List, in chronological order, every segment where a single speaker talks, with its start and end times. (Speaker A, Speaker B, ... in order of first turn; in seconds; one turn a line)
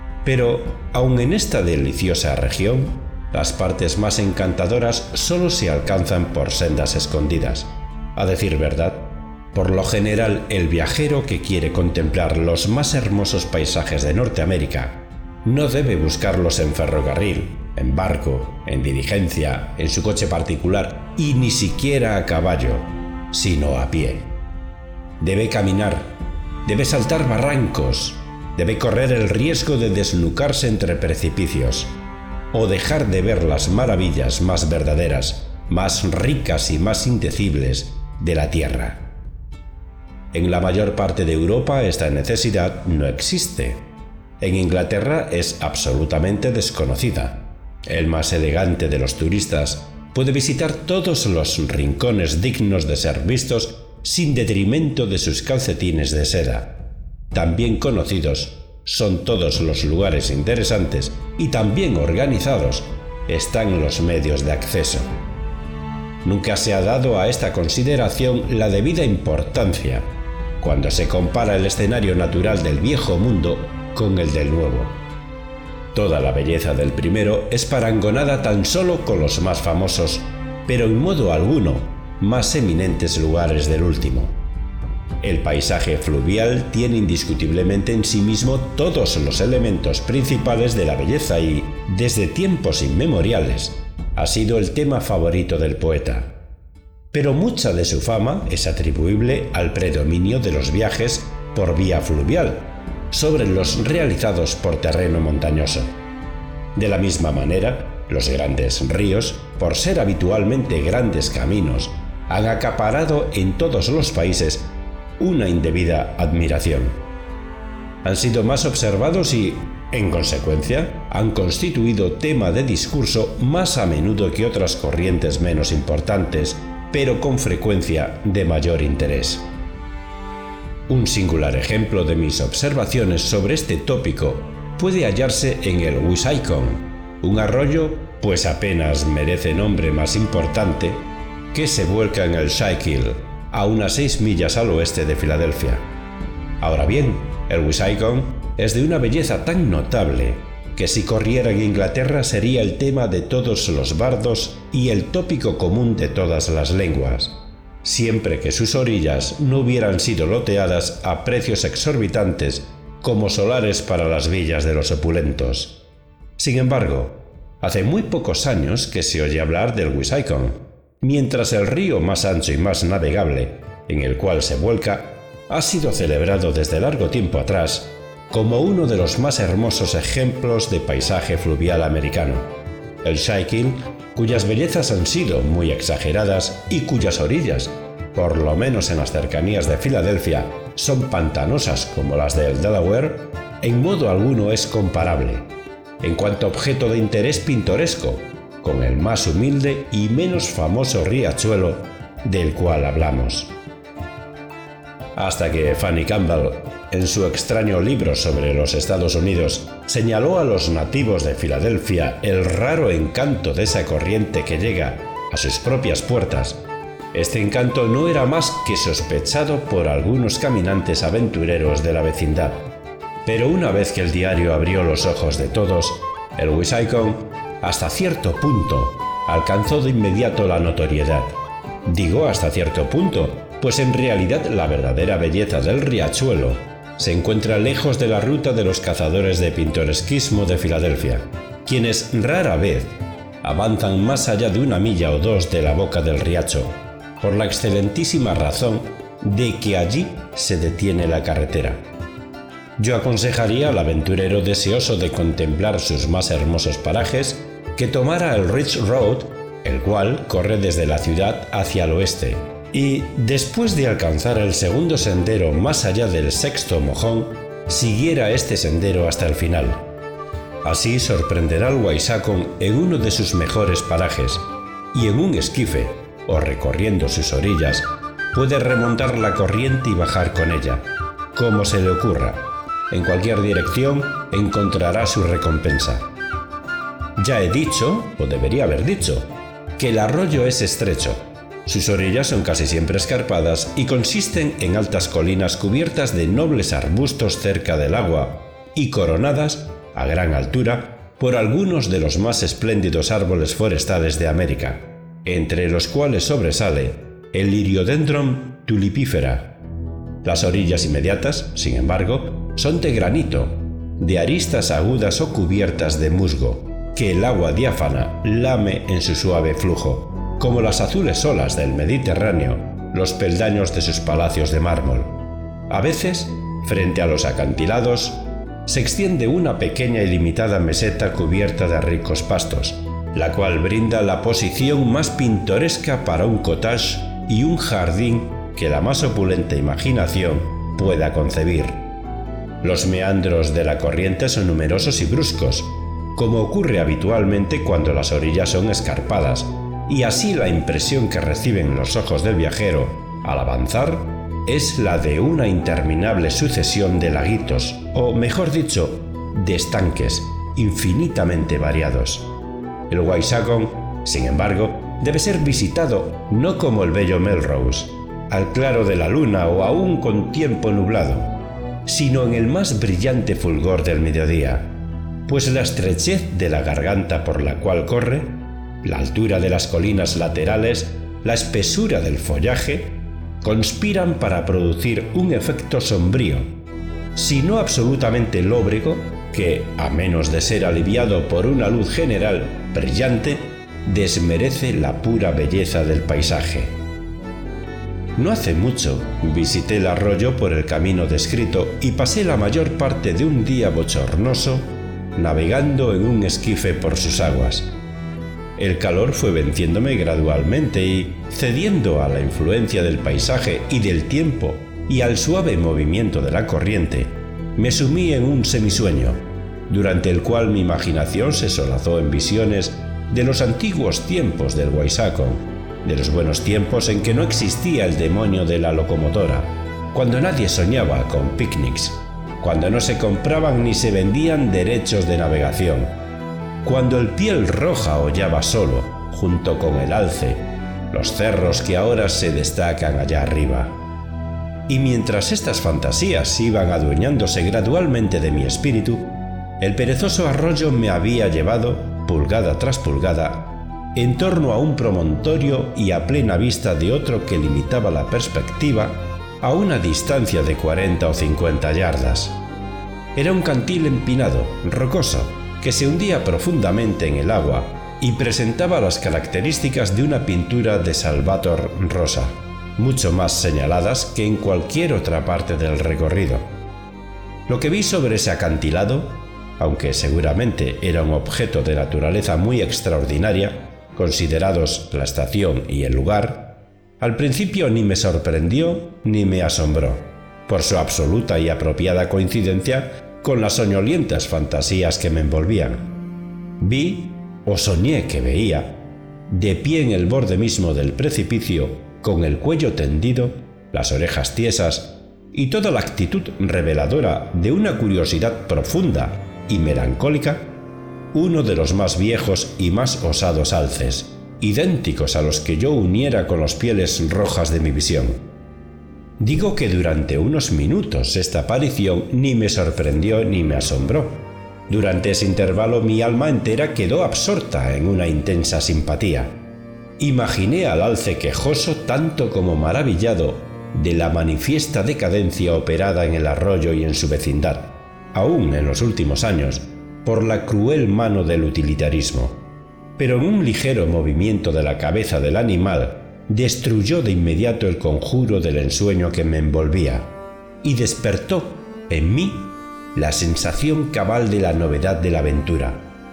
Speaker A: 0.2-24.3
Speaker A: 25.2-26.1
Speaker A: 26.6-31.9
Speaker A: 32.5-39.0
Speaker A: 40.3-43.8
Speaker A: 44.4-56.7
Speaker A: 57.3-65.1
Speaker A: 66.2-70.1
Speaker A: 70.6-74.9
Speaker A: 75.9-84.3
Speaker A: 85.2-96.3
Speaker A: 97.1-105.9
Speaker A: 106.7-117.0
Speaker A: 118.0-129.5
Speaker A: 130.9-145.8
Speaker A: 146.6-165.8
Speaker A: 166.4-182.5
Speaker A: 183.0-195.5
Speaker A: 196.0-203.5
Speaker A: 205.2-216.6
Speaker A: 217.1-222.6
Speaker A: 223.2-251.8
Speaker A: 252.8-269.8
Speaker A: 270.6-286.1
Speaker A: 287.2-309.5
Speaker A: 310.2-325.1
Speaker A: 325.7-341.8
Speaker A: 342.6-362.3
Speaker A: 362.9-371.3
Speaker A: 371.8-374.7
Speaker A: 375.3-386.5
Speaker A: 387.1-396.7
Speaker A: 398.1-407.7
Speaker A: 408.6-435.9
Speaker A: 436.6-443.7
Speaker A: 444.7-449.1
Speaker A: 449.6-462.4
Speaker A: 463.1-476.5
Speaker A: 477.5-495.9
Speaker A: 496.6-498.7
Speaker A: 499.3-510.5
Speaker A: 511.1-518.2
Speaker A: 519.2-529.3
Speaker A: 530.0-542.4
Speaker A: 543.0-550.1
Speaker A: 550.6-555.8